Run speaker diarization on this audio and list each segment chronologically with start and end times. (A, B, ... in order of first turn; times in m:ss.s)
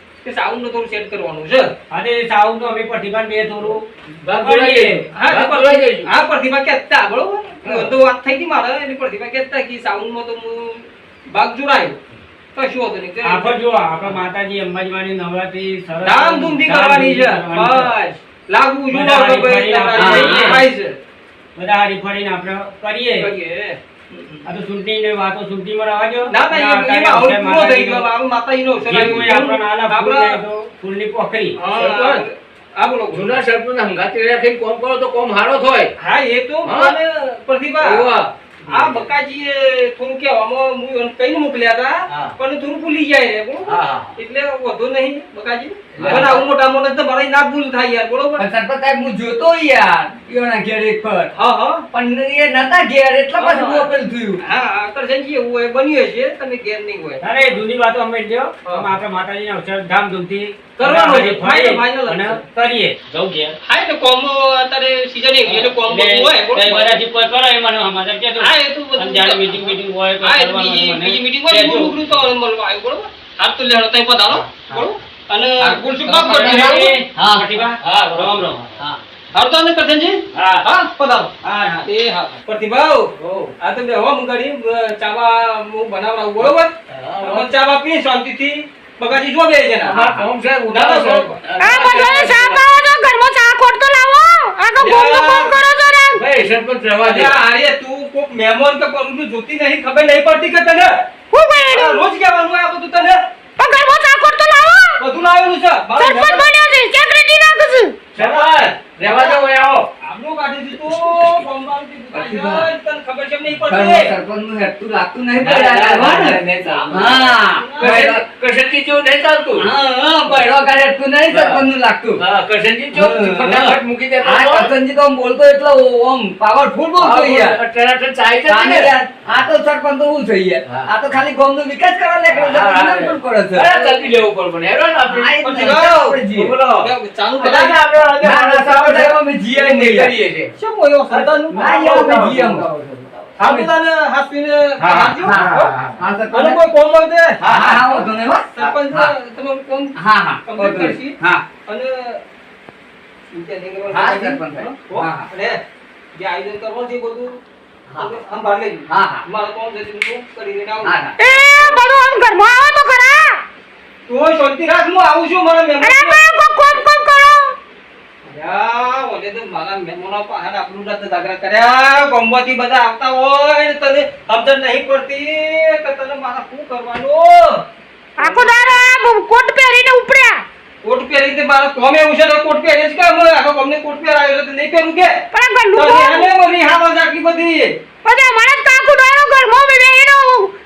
0:00.2-0:01.7 A
0:01.9-0:03.8 B
0:04.1-0:06.1 C
0:04.4-0:05.1 B
0:05.1-0:12.0 A
0:12.6-0:14.2 A
0:13.2-0:17.9 B
0:16.0-0:21.0 A
0:18.9-0:20.6 B
0:20.0-0:20.6 D
0:21.6-0:23.3 B
0:23.2-0:24.5 A
0:24.5-0:28.1 B
0:26.3-0:30.4 A
0:28.8-0:31.6 B
0:31.6-0:33.4 A
0:31.7-0:32.3 C
0:33.1-0:35.9 C
0:36.0-0:38.2 A
0:36.6-0:37.0 C
0:37.8-0:39.1 C
0:38.7-0:48.4 A
0:43.7-0:44.1 C
0:46.0-0:46.4 C
0:46.0-0:46.4 D
0:48.4-0:51.3 D
0:51.3-0:51.8 A
0:51.9-0:54.4 D
0:53.4-0:57.5 A
0:57.2-1:03.6 B
1:00.8-1:02.4 A
1:03.6-1:07.0 A
1:05.4-1:12.1 B
1:08.4-1:17.0 A
1:16.0-1:18.8 B
1:17.2-1:17.6 D
1:17.8-1:18.9 C
1:19.3-1:21.3 A
1:20.3-1:20.6 C
1:21.8-1:30.1 A
1:23.2-1:23.5 B
1:26.4-1:27.5 C
1:29.8-1:32.6 C
1:30.7-1:31.4 A
1:31.6-1:36.3 E
1:34.8-1:35.6 A
1:36.1-1:37.4 C
1:37.0-1:41.0 A
1:41.3-1:42.0 E
1:41.7-1:43.2 A
1:43.6-1:45.0 E
1:45.0-1:46.5 A
1:46.0-1:48.0 E
1:48.1-1:49.9 C
1:48.2-1:49.4 A
1:50.0-1:54.1 A
1:52.1-1:52.7 D
1:53.6-1:58.2 D
1:55.4-1:59.7 C
1:56.9-1:58.1 A
1:59.6-2:02.2 D
2:00.3-2:00.5 C
2:01.3-2:04.8 C
2:02.9-2:07.6 D
2:07.0-2:08.9 C
2:08.4-2:14.0 D
2:10.7-2:10.9 C
2:12.3-2:15.4 C
2:15.0-2:16.6 D
2:15.4-2:17.8 A
2:16.3-2:20.5 C
2:18.2-2:20.2 D
2:19.7-2:20.0 A
2:20.6-2:22.7 A
2:21.5-2:23.7 D
2:23.4-2:25.7 A
2:24.8-2:25.8 C
2:25.2-2:26.6 D
2:26.3-2:27.4 A
2:27.4-2:28.1 C
2:27.4-2:29.1 D
2:28.5-2:32.2 A
2:30.0-2:31.5 D
2:33.3-2:35.6 A
2:33.9-2:35.3 D
2:36.2-2:37.4 A
2:37.9-2:38.2 D
2:38.0-2:41.0 A
2:38.9-2:39.3 D
2:40.8-2:41.2 D
2:41.2-2:43.4 E
2:44.1-2:46.2 A
2:45.8-2:47.6 E
2:48.2-2:57.6 A
2:58.2-2:58.7 A
2:58.2-3:00.4 E
3:00.8-3:05.2 A
3:05.3-3:06.3 E
3:05.7-3:07.8 A
3:08.0-3:10.5 E